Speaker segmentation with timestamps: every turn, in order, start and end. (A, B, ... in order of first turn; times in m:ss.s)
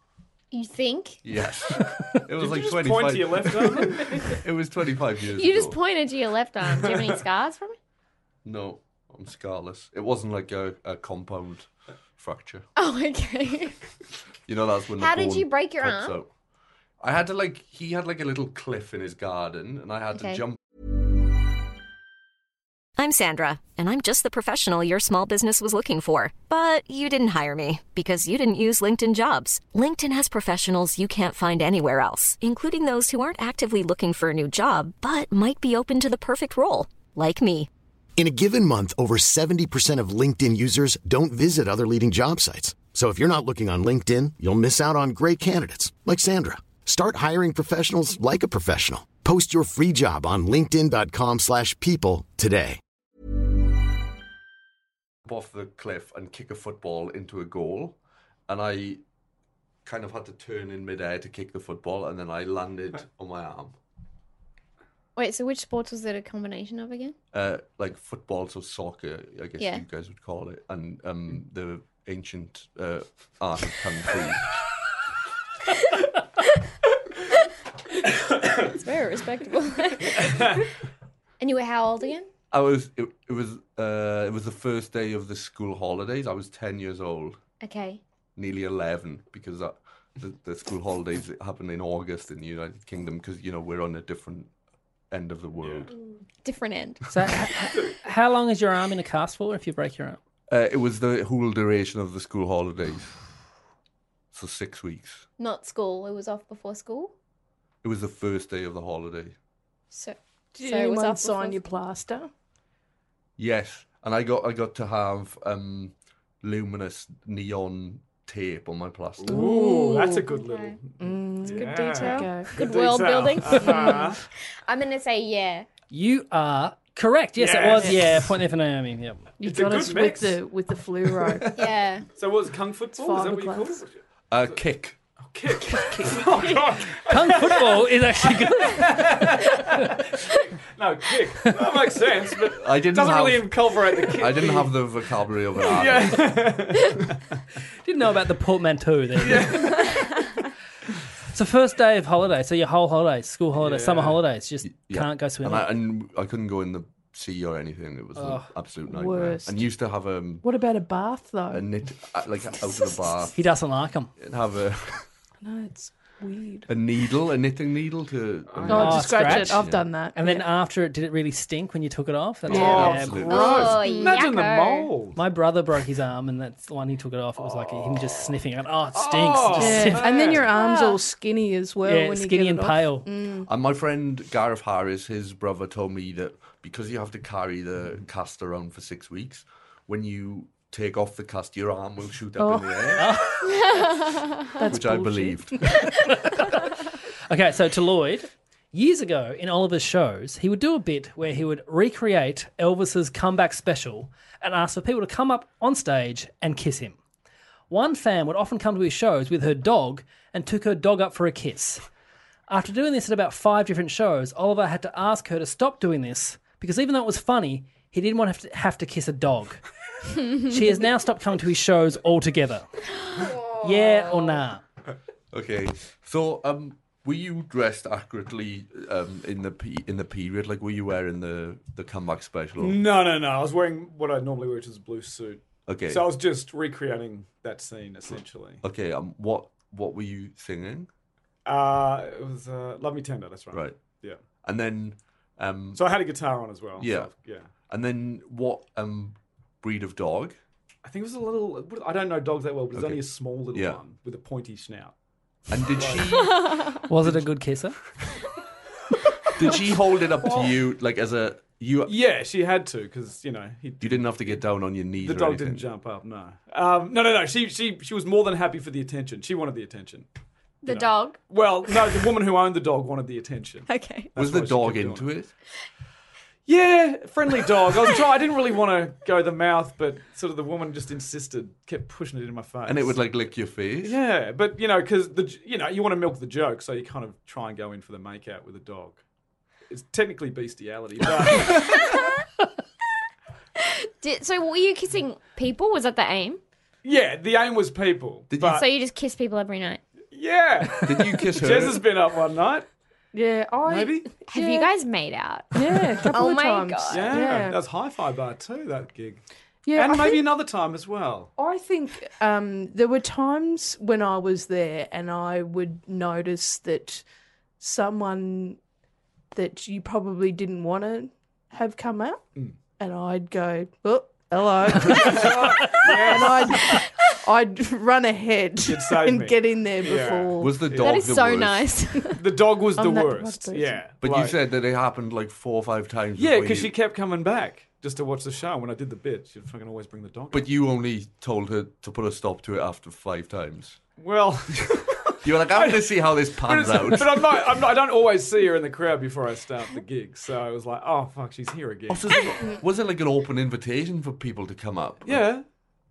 0:00.5-0:01.2 A
0:01.2-0:05.8 B
0:02.3-0:04.4 C
0:05.4-0:07.8 A
0:08.4-0:12.7 B
0:12.8-0:13.8 A
0:14.5-0:16.3 B
0:15.0-0:16.2 A
0:17.0-0:20.6 B
0:20.2-0:20.4 A
0:23.0-0:37.7 D
0:38.2-0:52.8 E
0:55.2-0:58.0 B
0:58.5-0:59.0 B
0:59.8-1:03.8 B
1:05.2-1:07.2 A
1:07.3-1:14.5 B
1:09.6-1:09.8 A
1:18.5-1:20.7 A
1:20.2-1:20.7 C
1:21.4-1:22.3 A
1:22.5-1:27.4 B
1:27.6-1:28.0 A
1:28.4-1:34.5 B
1:35.1-1:35.9 B
1:36.4-1:37.1 A
1:37.1-1:40.2 F
1:40.5-1:43.2 B
1:44.3-1:45.2 B
1:45.4-1:47.1 A
1:47.8-1:49.4 B
1:49.9-1:51.6 A
1:50.6-1:52.3 G
1:53.4-1:59.4 B
1:59.2-2:04.2 C
1:59.3-2:00.3 G
2:00.3-2:00.8 A
2:01.0-2:02.5 G
2:01.5-2:05.7 A
2:03.6-2:04.1 G
2:05.9-2:09.3 F
2:07.4-2:08.3 C
2:09.4-2:11.6 G
2:09.4-2:10.4 C
2:11.2-2:13.9 C
2:11.6-2:12.1 A
2:13.0-2:13.8 G
2:14.3-2:15.0 B
2:15.2-2:24.8 C
2:15.7-2:16.6 G
2:17.1-2:19.9 F
2:22.6-2:26.4 B
2:25.6-2:27.2 C
2:27.8-2:29.9 F
2:29.2-2:30.1 C
2:31.3-2:35.7 F
2:33.6-2:34.2 C
2:34.6-2:40.4 B
2:38.2-2:38.5 F
2:38.9-2:39.7 G
2:40.4-2:41.7 G
2:41.5-2:43.4 B
2:43.4-2:44.1 F
2:44.2-2:45.1 B
2:45.4-2:46.7 G
2:46.7-2:49.9 B
2:48.6-2:48.9 C
2:48.7-2:50.5 G
2:48.7-2:53.2 F
2:52.5-2:53.8 B
2:52.5-2:55.2 C
2:52.6-2:52.9 G
2:53.3-2:54.9 A
2:53.7-2:54.2 G
2:55.2-3:00.1 F
2:57.7-2:58.2 C
2:58.9-3:00.5 C
2:59.6-3:03.5 G
3:00.5-3:01.0 A
3:01.8-3:03.1 F
3:03.5-3:13.3 B
3:12.4-3:15.9 G
3:13.0-3:13.4 F
3:14.7-3:15.9 B
3:17.3-3:27.0 F
3:27.7-3:31.9 F
3:32.5-3:39.6 F
3:40.2-3:42.9 F
3:43.6-3:44.6 F
3:45.3-3:52.8 B
3:52.6-3:58.6 C
3:55.7-3:56.1 B
3:58.6-4:00.9 B
4:01.4-4:04.2 C
4:03.5-4:03.8 B
4:04.4-4:05.8 B
4:05.8-4:07.5 C
4:06.8-4:10.4 B
4:10.8-4:14.9 C
4:12.7-4:13.8 B
4:15.5-4:16.8 B
4:15.7-4:16.1 C
4:16.9-4:17.8 F
4:19.4-4:21.9 B
4:21.9-4:24.4 C
4:23.8-4:25.7 B
4:25.0-4:30.1 C
4:30.6-4:31.2 A
4:30.7-4:35.1 C
4:33.7-4:34.1 A
4:34.2-4:35.3 B
4:36.5-4:43.0 C
4:42.7-4:44.0 B
4:43.8-4:49.0 C
4:49.7-4:52.1 C
4:53.6-4:56.4 A
4:56.8-4:58.6 C
4:58.3-4:58.6 B
4:58.4-4:59.8 A
5:00.1-5:02.7 C
5:00.8-5:01.8 B
5:03.1-5:04.7 G
5:03.6-5:04.1 C
5:04.3-5:07.2 A
5:05.5-5:07.6 G
5:06.9-5:09.2 C
5:09.6-5:10.3 G
5:09.8-5:11.3 C
5:11.4-5:17.0 G
5:17.6-5:18.6 G
5:19.3-5:30.6 G
5:24.9-5:26.8 C
5:28.6-5:31.1 C
5:30.4-5:31.8 B
5:30.8-5:32.2 A
5:32.2-5:34.4 C
5:32.8-5:33.8 G
5:34.0-5:36.7 B
5:36.2-5:40.4 C
5:40.3-5:43.8 B
5:44.0-5:52.2 C
5:45.2-5:47.4 B
5:51.9-5:55.2 B
5:55.0-5:55.4 C